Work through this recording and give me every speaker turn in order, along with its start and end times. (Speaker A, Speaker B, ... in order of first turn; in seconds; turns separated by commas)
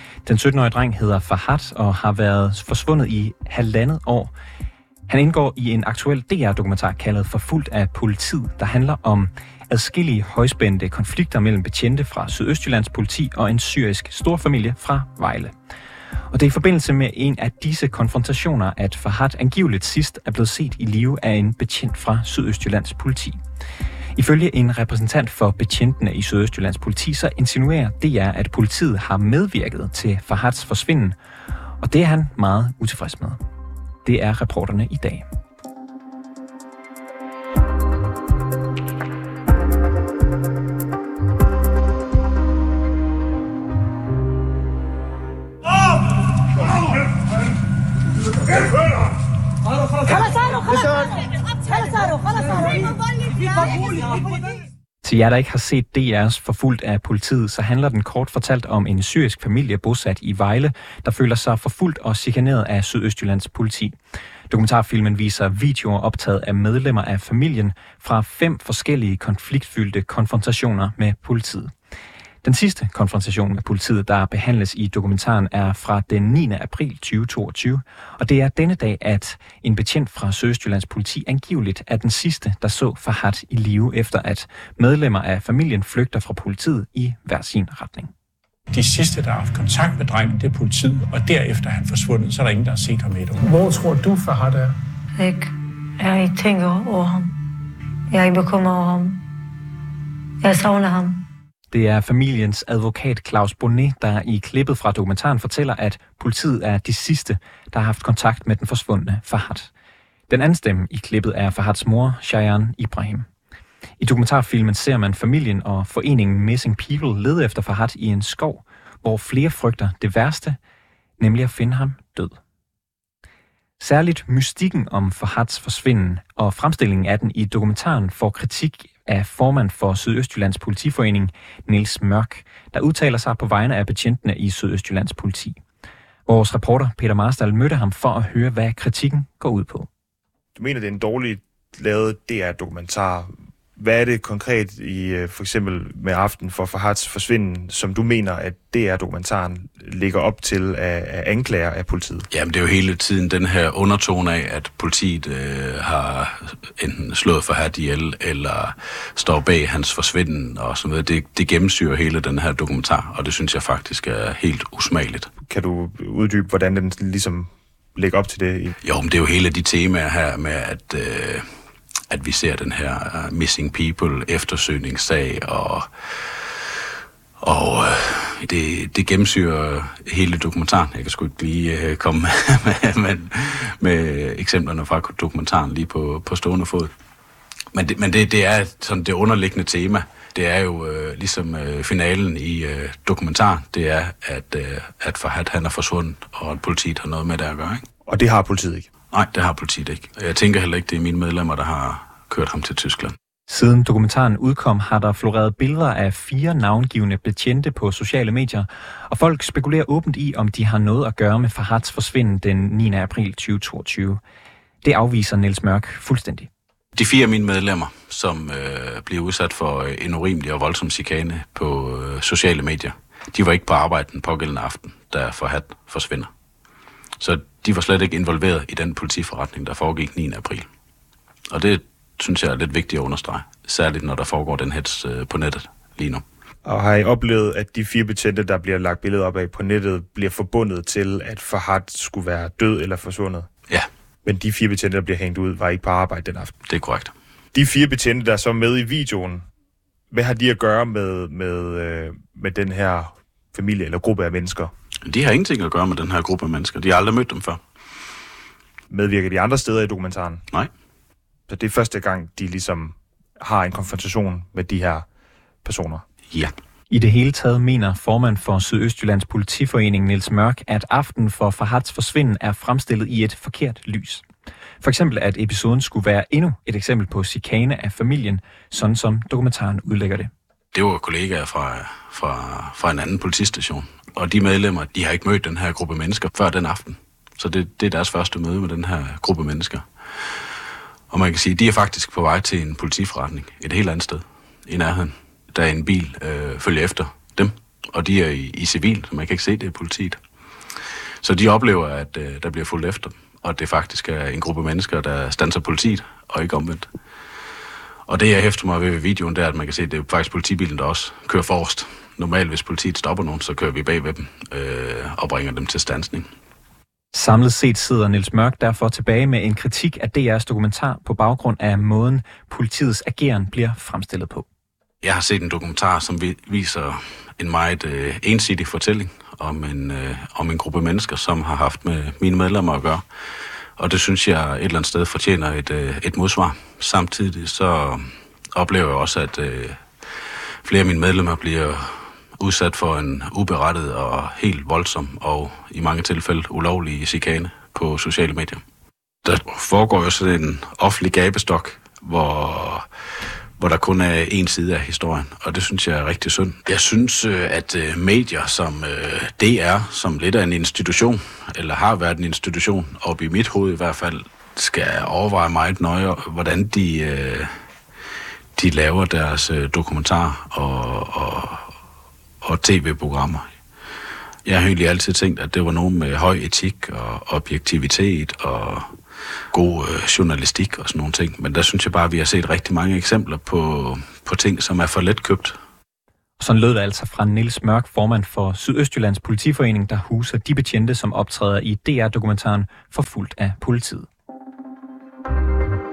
Speaker A: 0.2-4.3, Speaker A: 5.1-15.5, Speaker A: 16.3-23.4, Speaker A: 24.1-31.1, Speaker A: 31.8-33.4, Speaker A: 34.0-35.2, Speaker A: 55.0-64.0, Speaker A: 64.5-71.7, Speaker A: 72.4-88.1, Speaker B: 88.7-94.7, Speaker C: 95.2-95.5, Speaker C: 96.0-97.3, Speaker C: 98.1-99.2, Speaker C: 100.4-101.2, Speaker A: 101.7-109.7, Speaker A: 110.3-113.3, Speaker A: 114.0-120.6, Speaker A: 121.2-122.4, Speaker A: 123.8-135.6, Speaker A: 136.3-139.9, Speaker D: 140.6-152.3, Speaker E: 152.3-165.3, Speaker D: 165.4-168.7, Speaker E: 168.8-171.4, Speaker E: 172.1-176.5, Speaker E: 177.4-186.9, Speaker E: 187.7-197.8, Speaker D: 198.1-198.9, Speaker E: 199.1-203.1, Speaker A: 203.5-214.2, Speaker A: 214.8-216.5, Speaker E: 216.9-226.3, Speaker E: 227.2-230.7, Speaker E: 231.5-236.2, Speaker D: 236.6-243.5, Speaker D: 244.2-246.5, Speaker E: 246.7-247.1, Speaker D: 247.5-249.4, Speaker D: 250.1-254.7, Speaker E: 255.0-257.6, Speaker D: 258.9-260.4, Speaker D: 261.5-265.1, Speaker D: 265.6-266.0, Speaker A: 266.9-274.2, Speaker A: 274.8-280.3, Speaker E: 280.7-289.8, Speaker E: 291.1-300.2, Speaker E: 301.2-306.9, Speaker E: 308.1-316.3, Speaker A: 317.1-324.4, Speaker E: 325.0-333.0, Speaker E: 333.8-339.8, Speaker E: 340.6-348.6, Speaker E: 349.2-352.9, Speaker E: 353.6-367.5, Speaker E: 368.5-371.7, Speaker E: 372.4-373.4, Speaker E: 374.4-378.9, Speaker E: 379.5-385.6, Speaker A: 386.4-394.1